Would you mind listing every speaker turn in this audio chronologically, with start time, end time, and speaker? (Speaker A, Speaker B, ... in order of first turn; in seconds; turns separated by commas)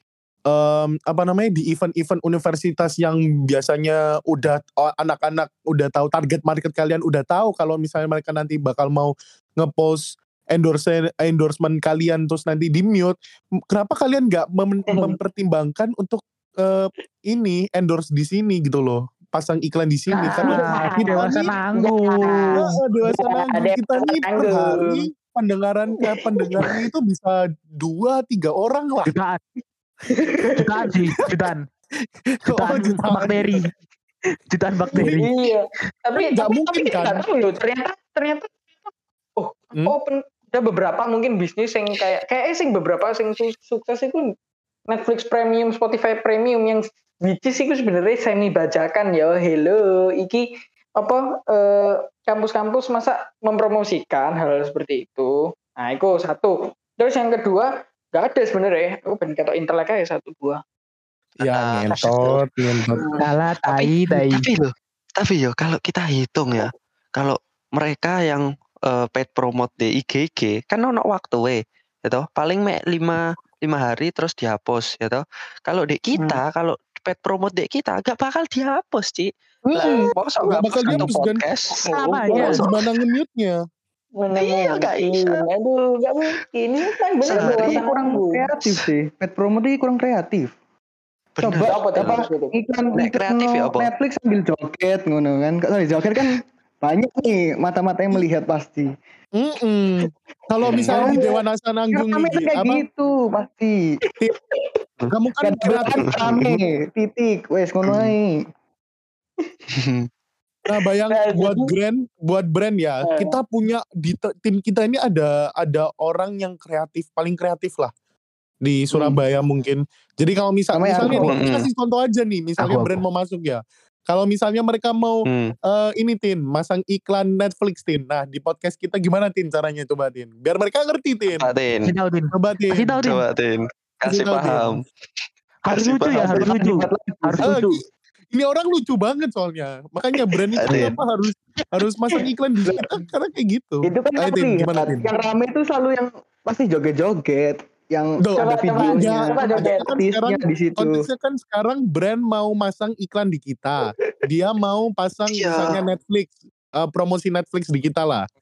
Speaker A: 0.5-13.1, Speaker A: 13.7-21.5, Speaker B: 20.1-22.5, Speaker C: 20.3-25.1, Speaker A: 22.5-29.1, Speaker C: 26.1-26.8, Speaker B: 29.1-29.6, Speaker C: 30.1-30.7, Speaker B: 30.5-31.6, Speaker A: 32.4-33.6, Speaker B: 32.5-33.6, Speaker B: 34.5-35.3, Speaker A: 34.9-35.3, Speaker C: 35.1-44.3, Speaker A: 36.2-37.2, Speaker C: 44.9-50.5, Speaker C: 51.0-60.6, Speaker D: 61.4-62.9, Speaker A: 61.4-63.1, Speaker C: 62.9-63.2, Speaker B: 63.2-64.4, Speaker D: 63.7-82.9, Speaker C: 79.7-81.1, Speaker A: 80.5-81.4, Speaker C: 81.7-82.7, Speaker B: 81.9-82.6, Speaker A: 82.3-83.6, Speaker C: 84.2-88.4, Speaker D: 84.3-85.4, Speaker D: 87.2-87.8, Speaker E: 87.4-90.5, Speaker D: 88.6-88.9, Speaker D: 91.4-92.2, Speaker E: 91.4-98.9, Speaker C: 91.5-92.5, Speaker D: 92.9-93.9, Speaker A: 99.4-102.8, Speaker E: 100.9-101.3, Speaker C: 101.0-101.3, Speaker E: 101.9-103.8, Speaker C: 104.3-104.8, Speaker A: 105.1-106.6, Speaker E: 105.4-108.4, Speaker D: 106.0-106.5, Speaker D: 109.7-110.1, Speaker A: 110.7-117.9, Speaker C: 111.1-111.7, Speaker C: 113.1-113.3, Speaker A: 118.6-131.5, Speaker E: 120.7-121.4, Speaker D: 121.2-121.7, Speaker B: 122.6-123.0, Speaker D: 125.3-125.5, Speaker D: 131.3-131.9, Speaker B: 131.8-133.2, Speaker A: 132.3-133.1, Speaker D: 133.0-134.8, Speaker A: 134.1-134.8, Speaker B: 135.7-137.8, Speaker D: 135.7-136.4, Speaker E: 136.1-137.6, Speaker A: 137.4-137.8, Speaker A: 138.3-145.1, Speaker D: 140.6-140.9, Speaker B: 140.7-141.0, Speaker E: 143.8-151.0, Speaker A: 148.2-158.3, Speaker C: 148.4-149.9, Speaker D: 155.3-155.8